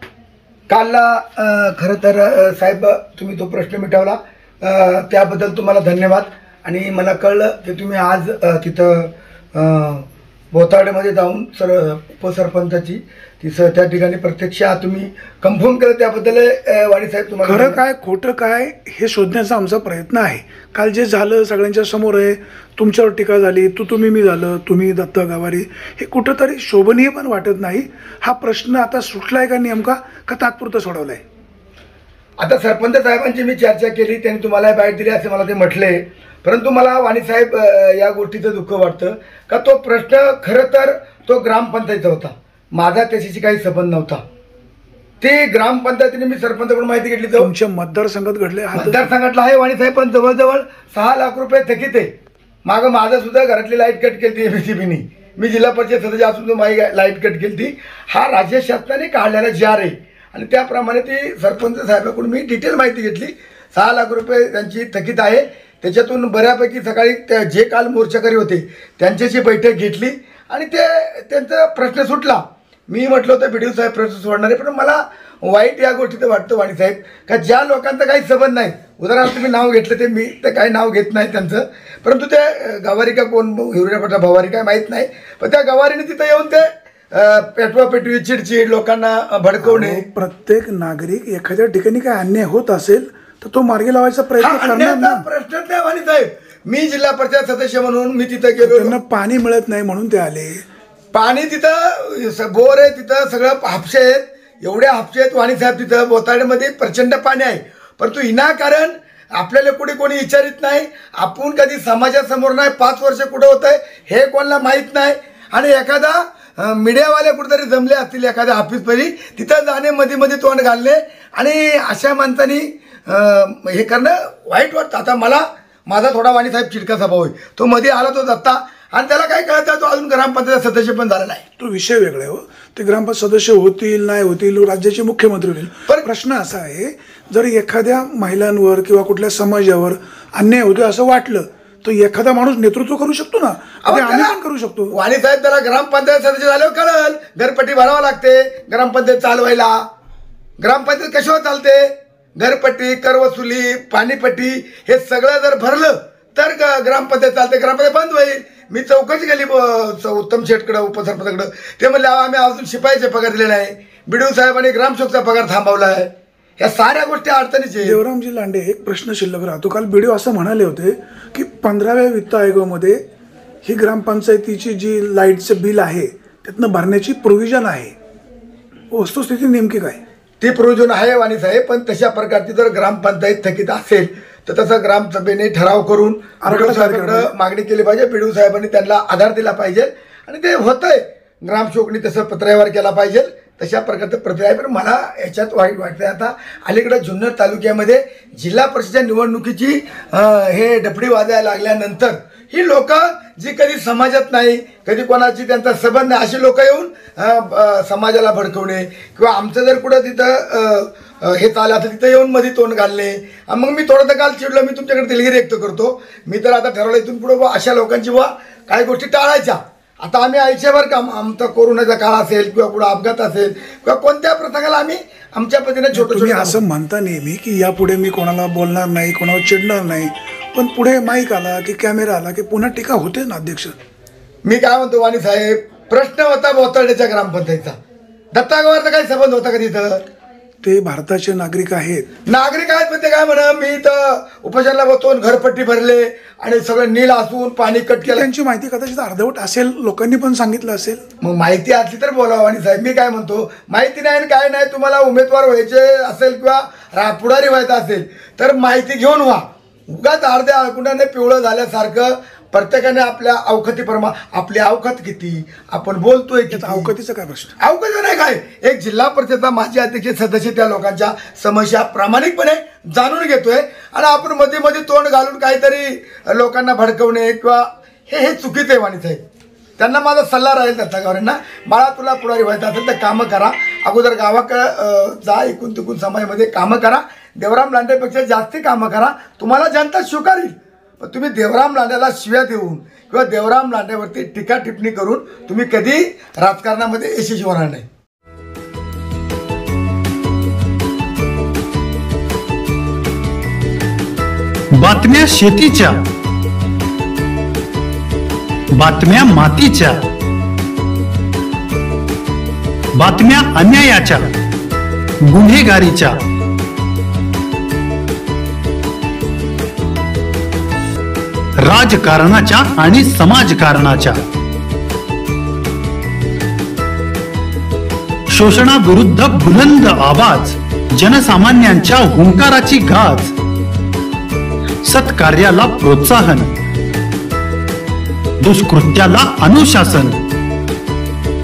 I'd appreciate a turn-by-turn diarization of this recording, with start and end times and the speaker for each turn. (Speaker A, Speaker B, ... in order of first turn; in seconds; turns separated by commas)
Speaker A: 0.7-17.8, Speaker B: 17.4-31.2, Speaker A: 32.4-44.2, Speaker A: 45.2-47.5, Speaker B: 47.4-49.1, Speaker A: 48.7-52.1, Speaker A: 52.6-90.0, Speaker B: 89.6-95.2, Speaker A: 94.4-99.0, Speaker B: 98.6-100.6, Speaker A: 101.1-131.4, Speaker B: 131.6-144.9, Speaker A: 143.8-144.3, Speaker A: 144.9-149.8, Speaker A: 150.6-168.0, Speaker B: 167.8-173.0, Speaker B: 173.6-177.9, Speaker B: 178.9-180.0, Speaker A: 180.4-226.6, Speaker B: 186.4-187.3, Speaker B: 225.9-233.8, Speaker A: 234.4-237.8, Speaker A: 238.3-240.0, Speaker B: 240.6-242.1, Speaker A: 242.3-248.3, Speaker B: 248.0-251.0, Speaker A: 251.2-266.9, Speaker B: 266.5-267.6, Speaker A: 267.6-279.2, Speaker A: 279.8-297.9, Speaker C: 304.7-306.0, Speaker C: 308.7-310.1, Speaker C: 313.0-314.3, Speaker C: 315.2-316.2, Speaker C: 321.6-324.2, Speaker C: 328.3-333.3, Speaker C: 334.9-336.5, Speaker C: 338.4-340.2